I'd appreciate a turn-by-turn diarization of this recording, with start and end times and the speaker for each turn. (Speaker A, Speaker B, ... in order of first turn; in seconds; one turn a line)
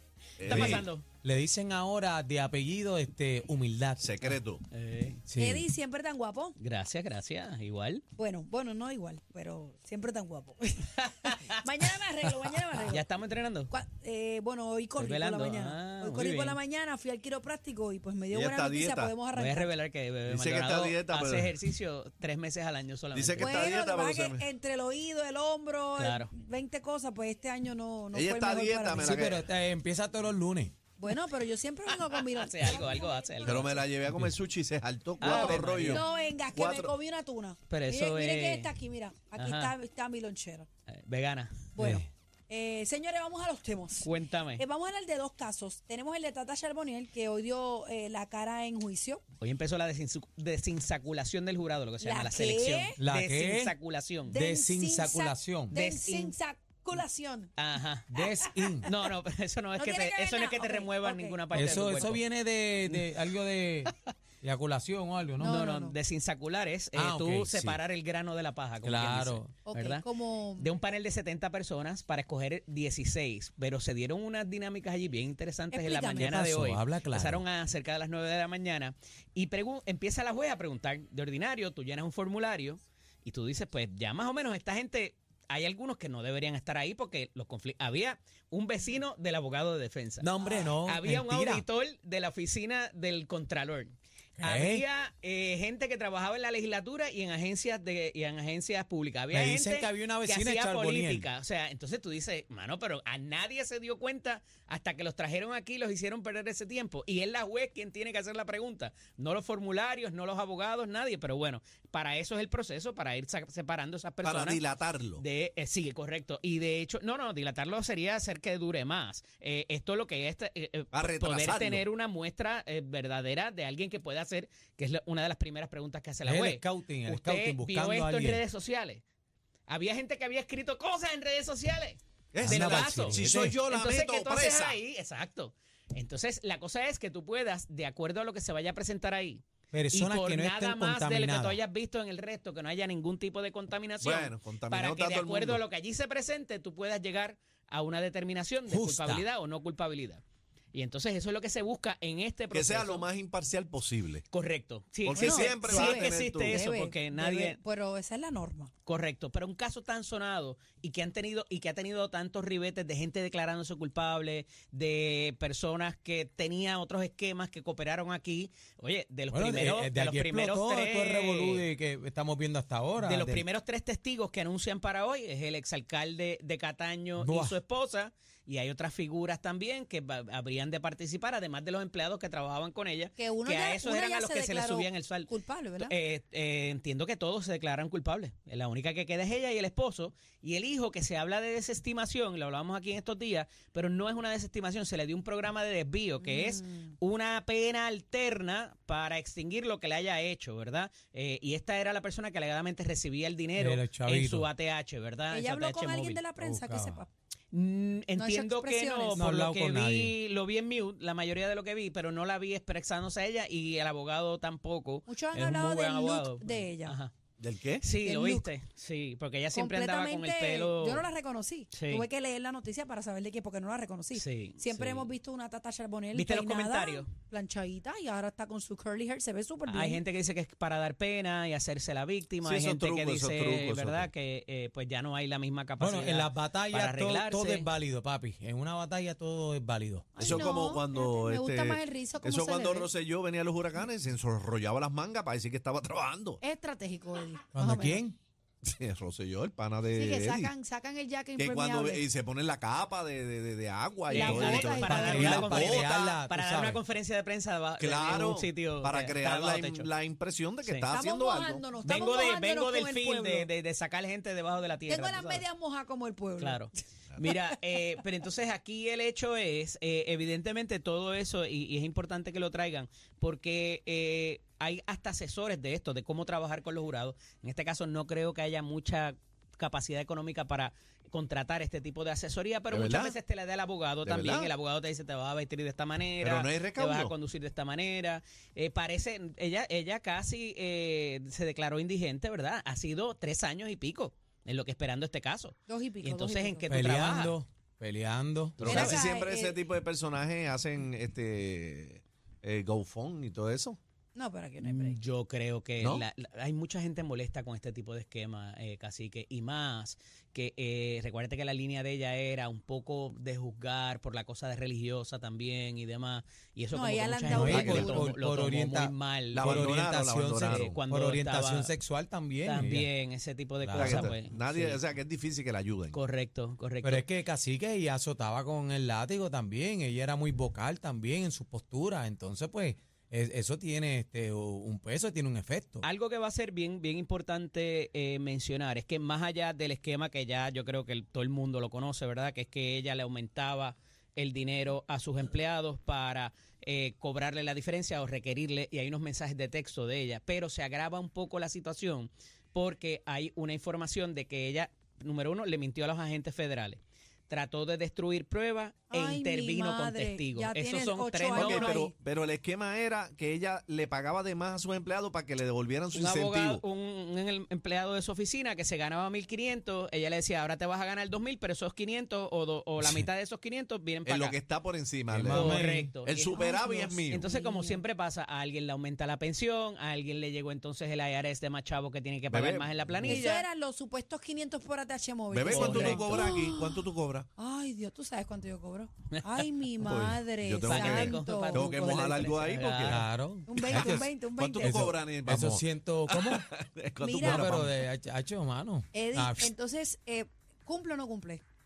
Speaker A: 0.4-0.8
Speaker B: 0.4-1.1
Speaker C: 0.5-4.3
Speaker A: 4.0-4.6
Speaker B: 4.7-5.2
Speaker C: 5.3-5.7
Speaker D: 5.4-6.5
Speaker B: 6.6-8.0
Speaker D: 8.2-13.0
Speaker B: 11.0-13.7
Speaker D: 13.7-19.7
Speaker B: 15.0-16.6
Speaker A: 18.3-19.1
Speaker B: 19.3-23.7
Speaker A: 20.3-21.5
Speaker A: 23.1-24.4
Speaker D: 23.4-29.3
Speaker B: 26.0-26.3
Speaker A: 28.1-29.5
Speaker C: 28.9-30.7
Speaker D: 31.0-33.8
Speaker B: 31.9-33.7
Speaker A: 33.4-36.9
Speaker B: 35.2-36.0
Speaker D: 35.2-40.7
Speaker B: 37.7-38.7
Speaker B: 39.4-39.7
Speaker B: 40.9-41.7
Speaker D: 41.7-49.2
Speaker C: 41.8-42.1
Speaker B: 44.0-44.6
Speaker B: 49.4-54.4
Speaker D: 52.0-53.0
Speaker C: 53.0-53.7
Speaker D: 54.3-57.5
Speaker C: 54.3-55.8
Speaker B: 55.7-56.3
Speaker B: 57.6-58.2
Speaker C: 58.1-58.9
Speaker D: 58.2-58.9
Speaker B: 58.8-62.2
Speaker D: 59.8-61.4
Speaker C: 61.5-65.6
Speaker B: 62.9-63.1
Speaker D: 65.4-66.0
Speaker B: 65.4-114.6
Speaker C: 66.9-67.8
Speaker C: 68.8-69.5
Speaker D: 69.6-70.7
Speaker D: 75.7-76.4
Speaker C: 76.2-77.4
Speaker C: 90.2-91.6
Speaker C: 94.4-94.8
Speaker C: 99.3-101.3
Speaker A: 114.2-115.2
Speaker B: 115.2-129.0
Speaker A: 120.9-121.8
Speaker C: 126.2-128.4
Speaker B: 129.7-150.2
Speaker A: 132.3-134.8
Speaker C: 132.4-133.6
Speaker C: 139.7-141.6
Speaker A: 144.0-145.6
Speaker C: 148.7-149.2
Speaker B: 150.7-153.1
Speaker A: 152.5-154.2
Speaker B: 154.3-157.6
Speaker A: 155.1-156.6
Speaker D: 155.1-158.7
Speaker B: 158.8-171.7
Speaker C: 169.3-173.4
Speaker B: 173.0-206.2
Speaker C: 177.2-177.6
Speaker D: 183.2-185.9
Speaker D: 196.2-196.9
Speaker C: 203.6-204.5
Speaker D: 205.3-207.1
Speaker C: 206.4-207.0
Speaker B: 207.5-217.1
Speaker D: 208.2-209.2
Speaker C: 209.1-210.1
Speaker D: 215.1-216.9
Speaker A: 217.4-217.8
Speaker B: 217.8-221.1
Speaker D: 218.0-218.5
Speaker D: 219.5-230.0
Speaker B: 221.7-222.1
Speaker B: 224.1-225.1
Speaker B: 226.1-227.1
Speaker B: 229.7-237.7
Speaker A: 232.4-234.1
Speaker C: 235.8-240.4
Speaker D: 240.1-242.9
Speaker A: 240.2-246.4
Speaker D: 246.4-248.0
Speaker C: 247.5-248.2
Speaker A: 248.6-250.5
Speaker D: 249.9-252.0
Speaker A: 251.3-256.0
Speaker D: 254.1-255.7
Speaker B: 254.1-259.9
Speaker C: 254.8-256.8
Speaker A: 257.8-261.6
Speaker D: 260.9-263.5
Speaker B: 261.8-265.4
Speaker D: 264.9-267.5
Speaker B: 266.4-297.4
Speaker A: 282.7-283.1
Speaker A: 284.0-284.5
Speaker A: 286.2-287.1
Speaker D: 295.7-296.8
Speaker C: 296.7-298.9
Speaker B: 298.6-299.1
Speaker A: 298.6-303.8
Speaker D: 298.6-299.6
Speaker D: 304.1-305.0
Speaker B: 304.6-319.8
Speaker D: 316.7-318.2
Speaker C: 317.3-322.9
Speaker A: 317.4-318.0
Speaker A: 319.3-320.7
Speaker B: 320.4-321.7
Speaker B: 322.4-324.8
Speaker C: 323.6-324.1
Speaker A: 323.7-326.0
Speaker B: 325.9-327.1
Speaker C: 326.8-335.8
Speaker B: 335.8-361.8
Speaker D: 358.9-361.9
Speaker A: 361.3-366.6
Speaker B: 365.9-374.4
Speaker A: 374.1-377.3
Speaker C: 375.1-375.9
Speaker B: 375.3-376.4
Speaker D: 376.4-377.8
Speaker B: 377.1-383.4
Speaker A: 382.3-383.2
Speaker D: 383.0-392.1
Speaker A: 385.3-387.3
Speaker B: 385.5-386.2
Speaker A: 389.8-393.0
Speaker B: 390.6-393.1
Speaker C: 392.9-394.1
Speaker D: 393.5-394.9
Speaker A: 393.5-397.8
Speaker C: 394.6-396.4
Speaker D: 397.0-397.6
Speaker C: 397.2-399.5
Speaker D: 398.9-401.4